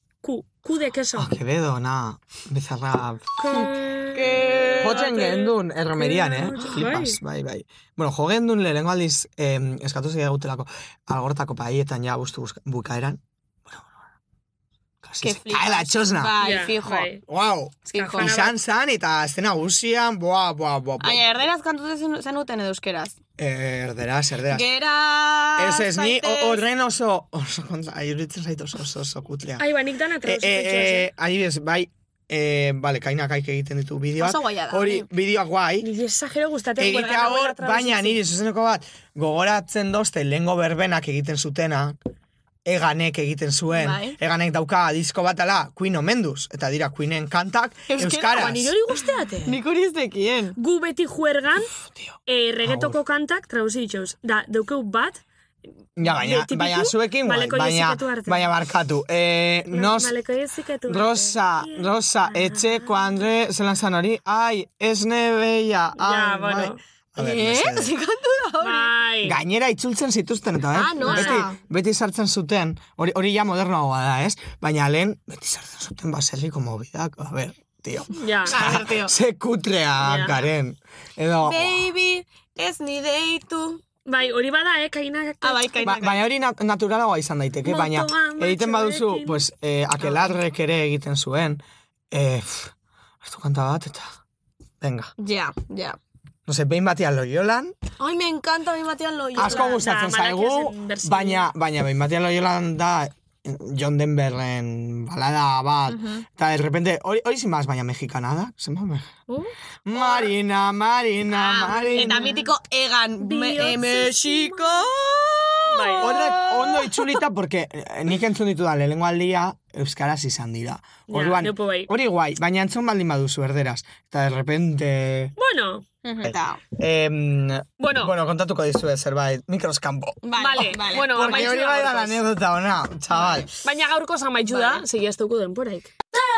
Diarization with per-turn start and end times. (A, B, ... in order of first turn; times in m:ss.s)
0:00.2-0:01.3 A
0:01.2-0:03.4 B
0:03.4-0:07.2 A
0:04.1-0:05.0 C
0:04.8-0:13.9 B
0:15.0-0:16.4 B
0:15.2-0:17.1 C
0:16.4-0:17.2 A
0:17.2-0:21.4 B
0:17.9-0:18.4 C
0:17.9-0:18.6 A
0:21.0-0:23.2 C
0:23.4-0:24.7 B
0:24.5-0:26.6 C
0:25.6-0:29.6 B
0:29.6-0:31.1 A
0:30.2-0:35.9 B
0:34.2-0:35.1 C
0:35.8-0:38.2 A
0:36.8-0:42.0 B
0:42.6-0:48.7 B
0:43.7-0:44.2 C
0:47.9-0:48.6 C
0:48.3-0:49.6 A
0:49.4-0:50.6 C
0:50.6-0:51.7 A
0:51.9-0:53.0 B
0:52.3-0:55.2 A
0:56.0-1:00.1 B
0:56.0-0:58.5 A
0:59.7-1:02.9 A
1:00.9-1:08.0 B
1:06.0-1:06.8 A
1:07.2-1:09.0 C
1:08.6-1:09.4 A
1:09.2-1:21.8 B
1:10.7-1:11.6 C
1:11.0-1:11.6 A
1:18.2-1:18.6 A
1:18.4-1:19.1 C
1:20.0-1:20.4 A
1:21.4-1:23.8 C
1:24.0-1:26.0 A
1:25.4-1:26.2 C
1:25.8-1:34.2 B
1:27.6-1:29.4 A
1:30.0-1:30.3 C
1:34.8-1:35.1 B
1:35.2-1:36.0 C
1:36.4-1:37.7 B
1:38.0-1:39.8 C
1:39.3-1:49.1 B
1:39.4-1:41.5 A
1:45.9-1:46.2 C
1:49.3-1:50.3 C
1:49.8-1:52.3 B
1:51.3-1:56.3 C
1:51.7-1:52.5 A
1:53.2-1:54.9 A
1:55.7-1:57.1 A
1:56.0-2:05.3 B
2:01.1-2:01.9 A
2:05.4-2:05.8 A
2:06.0-2:06.6 C
2:06.2-2:13.5 B
2:07.8-2:08.1 A
2:10.2-2:11.6 C
2:10.4-2:12.2 A
2:13.6-2:15.9 A
2:14.4-2:14.8 C